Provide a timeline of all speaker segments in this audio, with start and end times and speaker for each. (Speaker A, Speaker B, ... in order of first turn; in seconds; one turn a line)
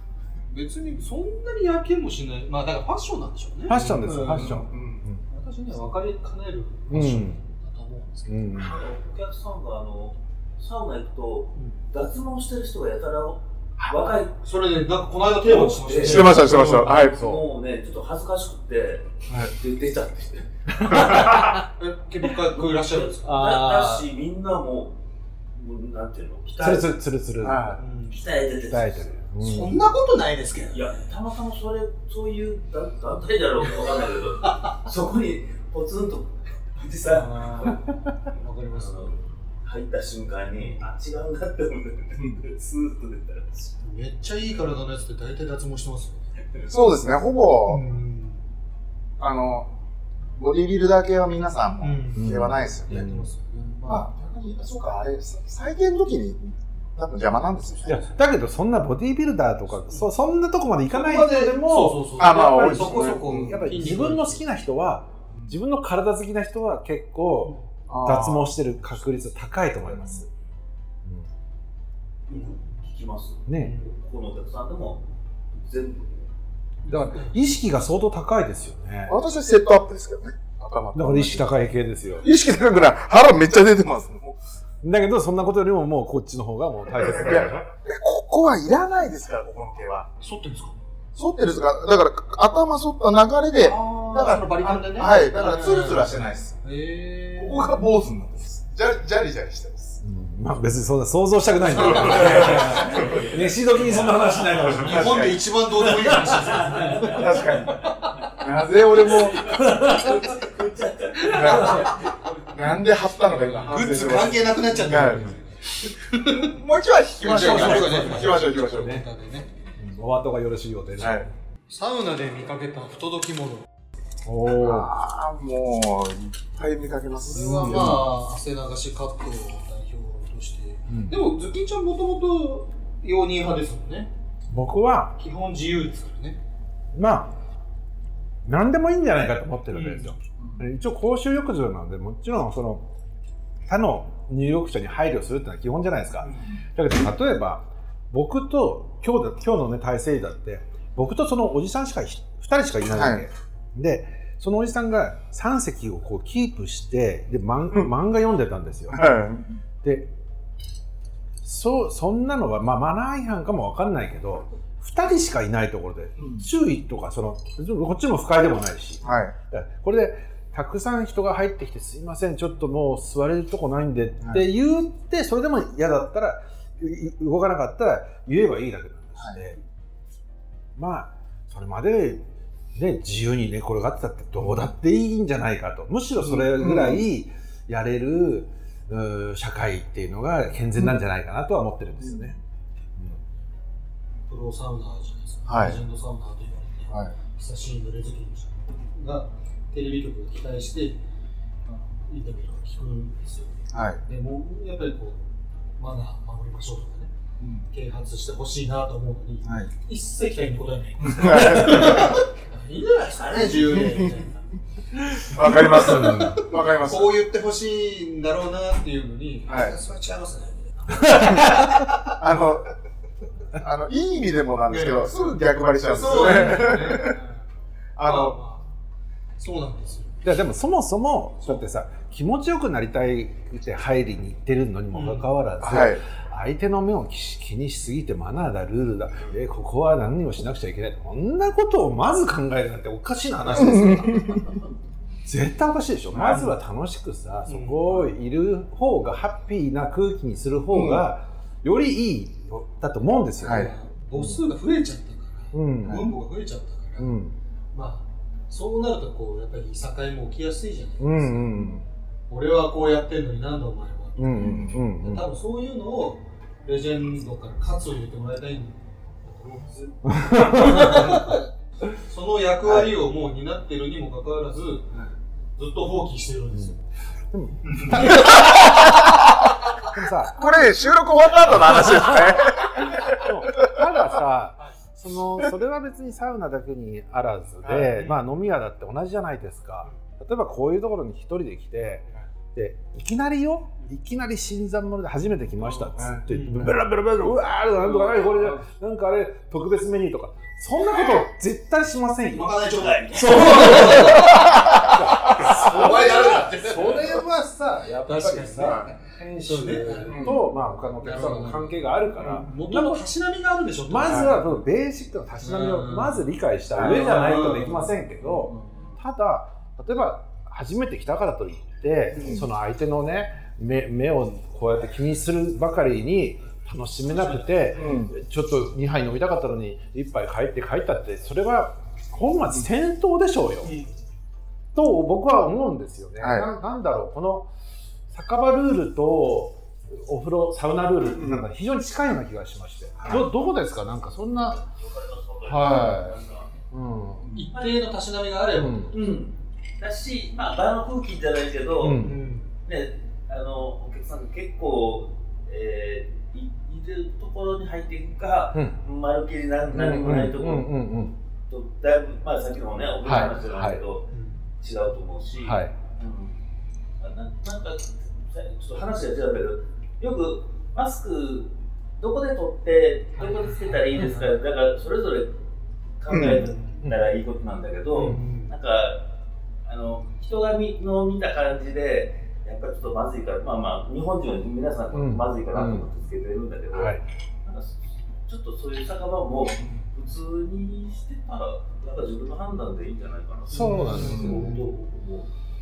Speaker A: 0.5-4.7
Speaker B: 3.7-5.2
Speaker C: 3.9-5.0
Speaker A: 5.3-8.7
Speaker B: 6.9-7.4
Speaker B: 8.3-8.8
Speaker D: 8.6-14.4
Speaker A: 11.5-11.8
Speaker A: 14.4-17.0
Speaker D: 15.4-21.5
Speaker C: 16.0-17.3
Speaker B: 16.1-17.4
Speaker C: 19.3-19.5
Speaker B: 20.7-21.6
Speaker A: 21.0-23.4
Speaker D: 22.4-25.0
Speaker B: 23.2-24.1
Speaker D: 25.5-27.0
Speaker B: 26.6-27.8
Speaker C: 27.4-27.8
Speaker A: 27.8-28.2
Speaker D: 28.1-29.1
Speaker B: 28.7-29.8
Speaker A: 29.4-31.1
Speaker D: 30.7-37.8
Speaker A: 37.1-39.2
Speaker D: 38.7-43.7
Speaker A: 40.6-40.9
Speaker C: 42.2-42.4
Speaker A: 43.8-46.3
Speaker C: 46.7-47.8
Speaker A: 47.7-48.4
Speaker C: 49.2-49.7
Speaker C: 50.4-53.1
Speaker A: 51.8-54.1
Speaker B: 52.1-53.3
Speaker C: 53.9-58.1
Speaker B: 57.9-70.3
Speaker A: 60.9-64.4
Speaker C: 62.2-63.7
Speaker C: 67.9-68.6
Speaker D: 72.3-76.3
Speaker B: 73.5-73.8
Speaker A: 73.6-73.9
Speaker A: 76.8-77.4
Speaker B: 76.9-79.2
Speaker C: 79.1-81.5
Speaker B: 80.9-82.3
Speaker C: 82.2-84.4
Speaker B: 84.8-87.6
Speaker C: 87.0-90.1
Speaker A: 90.2-90.8
Speaker C: 91.2-96.5
Speaker A: 93.6-97.9
Speaker C: 97.4-100.0
Speaker B: 100.0-105.3
Speaker C: 101.8-103.2
Speaker A: 101.9-102.8
Speaker D: 102.0-104.2
Speaker A: 104.6-107.7
Speaker C: 104.7-105.5
Speaker D: 106.3-113.8
Speaker C: 107.0-109.5
Speaker C: 111.3-111.9
Speaker A: 111.4-111.8
Speaker C: 112.5-115.3
Speaker A: 113.5-115.6
Speaker B: 114.8-115.3
Speaker A: 116.1-116.6
Speaker C: 116.1-119.0
Speaker A: 117.2-119.5
Speaker B: 117.3-119.1
Speaker B: 119.8-121.3
Speaker C: 121.0-121.3
Speaker A: 121.7-123.7
Speaker B: 124.2-124.9
Speaker C: 124.5-128.1
Speaker A: 127.2-134.1
Speaker B: 130.9-131.2
Speaker B: 134.5-135.2
Speaker A: 135.2-136.4
Speaker B: 136.9-137.3
Speaker B: 138.4-142.9
Speaker A: 139.7-140.2
Speaker C: 140.4-140.7
Speaker B: 143.7-159.2
Speaker C: 152.9-153.3
Speaker C: 158.9-159.5
Speaker B: 159.8-160.1
Speaker B: 161.4-179.6
Speaker C: 166.2-166.5
Speaker C: 169.0-169.3
Speaker B: 180.8-192.4
Speaker C: 184.4-184.7
Speaker C: 186.2-187.0
Speaker A: 194.3-201.0
Speaker C: 195.5-195.8
Speaker A: 201.9-203.5
Speaker C: 203.7-204.0
Speaker A: 204.0-205.2
Speaker A: 205.8-207.1
Speaker A: 207.7-214.3
Speaker C: 211.0-212.2
Speaker D: 213.3-214.3
Speaker C: 213.3-214.1
Speaker C: 215.2-217.2
Speaker A: 215.2-221.6
Speaker B: 215.5-216.5
Speaker C: 219.5-219.8
Speaker B: 221.1-221.5
Speaker C: 222.0-222.8
Speaker C: 223.5-227.2
Speaker A: 224.7-227.4
Speaker B: 226.2-226.8
Speaker C: 228.0-228.4
Speaker A: 228.0-228.7
Speaker A: 229.4-230.2
Speaker B: 230.2-244.4
Speaker A: 234.9-235.3
Speaker C: 235.6-236.0
Speaker C: 243.5-244.5
Speaker B: 245.2-254.4
Speaker C: 246.2-246.5
Speaker A: 247.5-248.1
Speaker C: 250.7-251.0
Speaker C: 253.4-253.7
Speaker A: 253.4-257.2
Speaker B: 255.5-256.1
Speaker C: 255.8-256.1
Speaker B: 257.0-257.4
Speaker A: 257.7-261.6
Speaker B: 261.0-261.8
Speaker A: 262.3-274.9
Speaker B: 264.2-265.3
Speaker C: 264.3-264.8
Speaker B: 270.1-271.4
Speaker B: 272.7-272.9
Speaker A: 275.6-276.8
Speaker B: 277.3-278.7
Speaker A: 277.7-278.3
Speaker C: 277.9-279.5
Speaker B: 279.9-280.5
Speaker C: 280.3-283.8
Speaker B: 281.4-313.1
Speaker C: 287.6-288.0
Speaker A: 287.9-288.2
Speaker A: 295.6-296.7
Speaker C: 296.0-296.7
Speaker A: 302.3-304.5
Speaker D: 302.8-303.9
Speaker C: 304.2-307.1
Speaker A: 305.2-307.1
Speaker A: 308.1-310.4
Speaker C: 308.6-308.9
Speaker C: 310.1-310.4
Speaker A: 311.0-314.4
Speaker B: 313.9-333.8
Speaker C: 314.0-314.4
Speaker A: 315.4-316.2
Speaker A: 316.7-317.9
Speaker C: 316.8-317.4
Speaker C: 322.1-322.5
Speaker C: 327.8-328.1
Speaker B: 334.7-337.5
Speaker C: 336.2-336.5
Speaker B: 338.1-344.6
Speaker C: 341.2-341.4
Speaker C: 343.0-343.3
Speaker D: 344.5-346.5
Speaker B: 345.4-347.3
Speaker C: 347.2-347.5
Speaker A: 347.4-349.1
Speaker B: 348.5-349.0
Speaker D: 348.9-352.1
Speaker B: 351.8-352.2
Speaker A: 352.0-352.5
Speaker D: 352.6-360.8
Speaker B: 359.7-361.2
Speaker C: 359.8-360.2
Speaker D: 361.5-366.4
Speaker B: 363.0-363.8
Speaker A: 364.1-364.4
Speaker B: 365.4-365.7
Speaker D: 367.0-375.4
Speaker A: 373.2-374.4
Speaker D: 376.0-379.1
Speaker C: 376.1-376.4
Speaker A: 376.2-376.7
Speaker A: 377.9-378.6
Speaker D: 379.6-395.3
Speaker B: 384.9-385.9
Speaker B: 386.7-387.0
Speaker B: 393.5-394.6
Speaker A: 393.5-394.7
Speaker C: 393.9-394.5